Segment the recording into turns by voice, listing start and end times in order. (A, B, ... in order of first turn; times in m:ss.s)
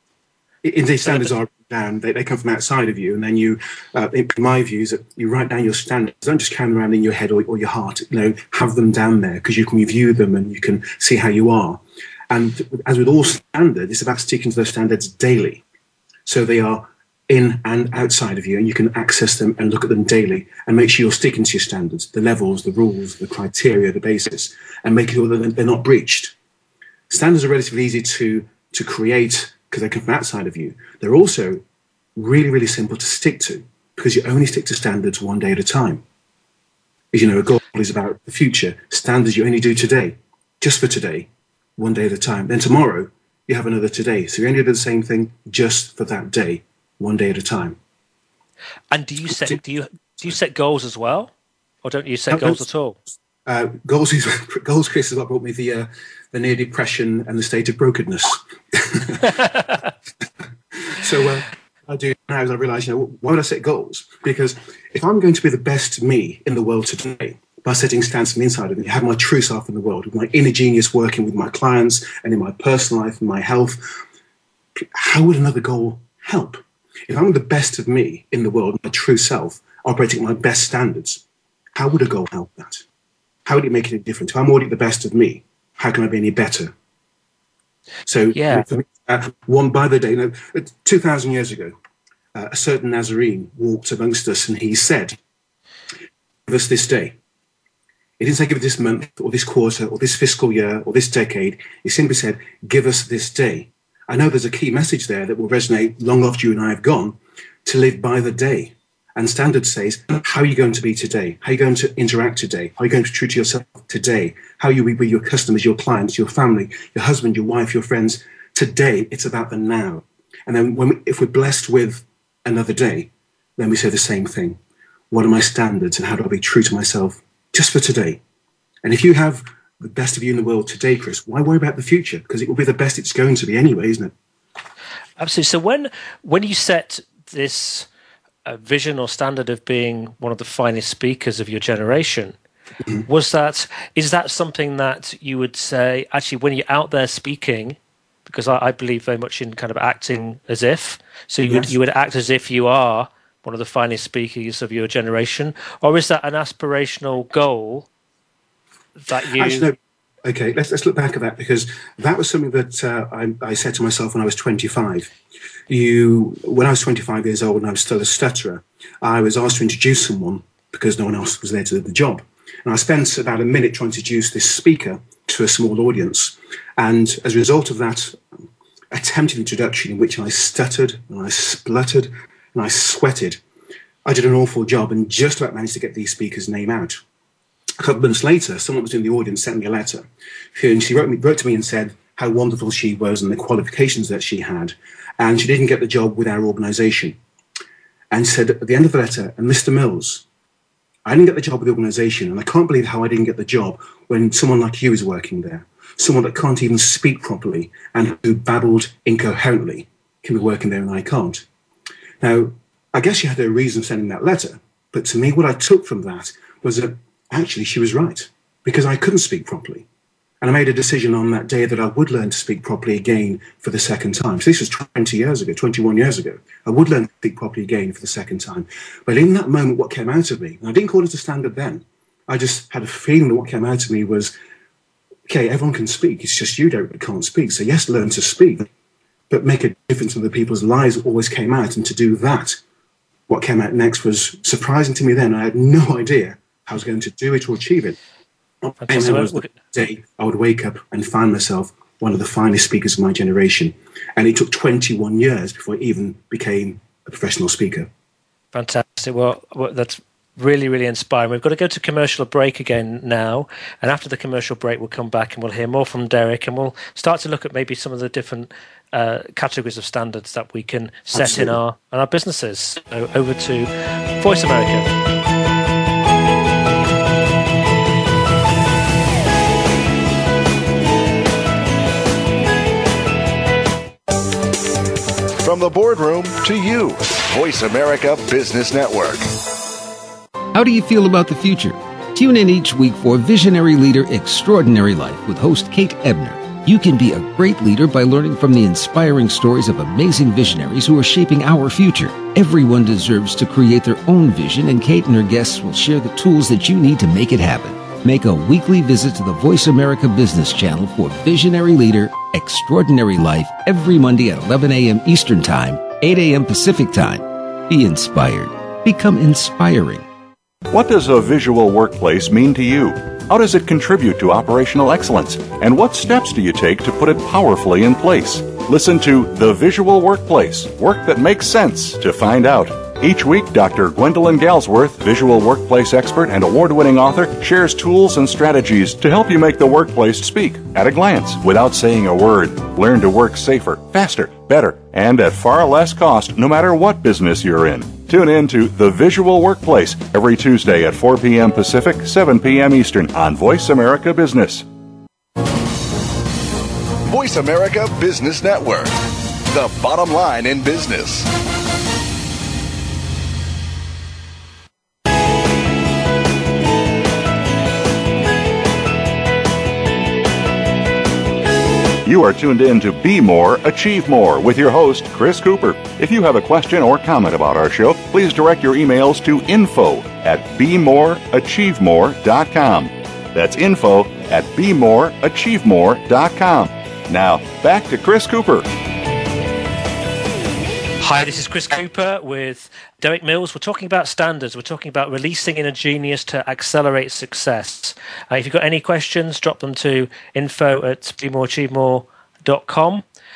0:00.6-0:15.6 A
0:01.0-0:01.3 B
0:16.2-0:26.3 A
0:27.1-0:31.6 A
0:32.2-0:36.0 A
0:37.1-0:47.8 A
0:48.9-0:51.3 B
0:51.8-0:53.0 B
0:52.3-0:52.6 A
0:53.4-0:59.3 A
1:00.9-1:14.0 A
1:14.8-1:21.2 A
1:21.7-1:22.8 A
1:23.4-1:26.7 A
1:28.0-1:31.7 A
1:28.3-1:28.6 B
1:32.3-1:35.2 A
1:36.4-1:37.2 A
1:38.2-2:04.6 A
2:05.1-2:08.2 A
2:08.8-2:14.1 A
2:15.2-2:17.9 B
2:18.4-2:22.4 B
2:23.0-2:37.9 B
2:31.4-2:31.7 A
2:39.0-2:39.7 B
2:39.4-2:45.1 A
2:45.7-2:58.2 A
2:58.9-3:03.4 A
3:04.0-3:07.0 A
3:07.8-3:17.2 A
3:18.1-3:20.2 A
3:21.0-3:31.4 A
3:32.2-3:39.8 A
3:40.4-3:54.3 A
3:55.3-3:58.7 A
3:59.3-4:02.6 A
4:03.3-4:08.0 A
4:08.8-4:09.5 B
4:08.8-4:17.9 A
4:18.5-4:34.9 B
4:31.1-4:31.6 A
4:45.4-4:49.3 C
4:50.5-5:20.0 D
5:20.7-5:54.6 E
5:57.0-6:01.3 C
6:12.0-6:28.7 E
6:31.0-6:43.0 B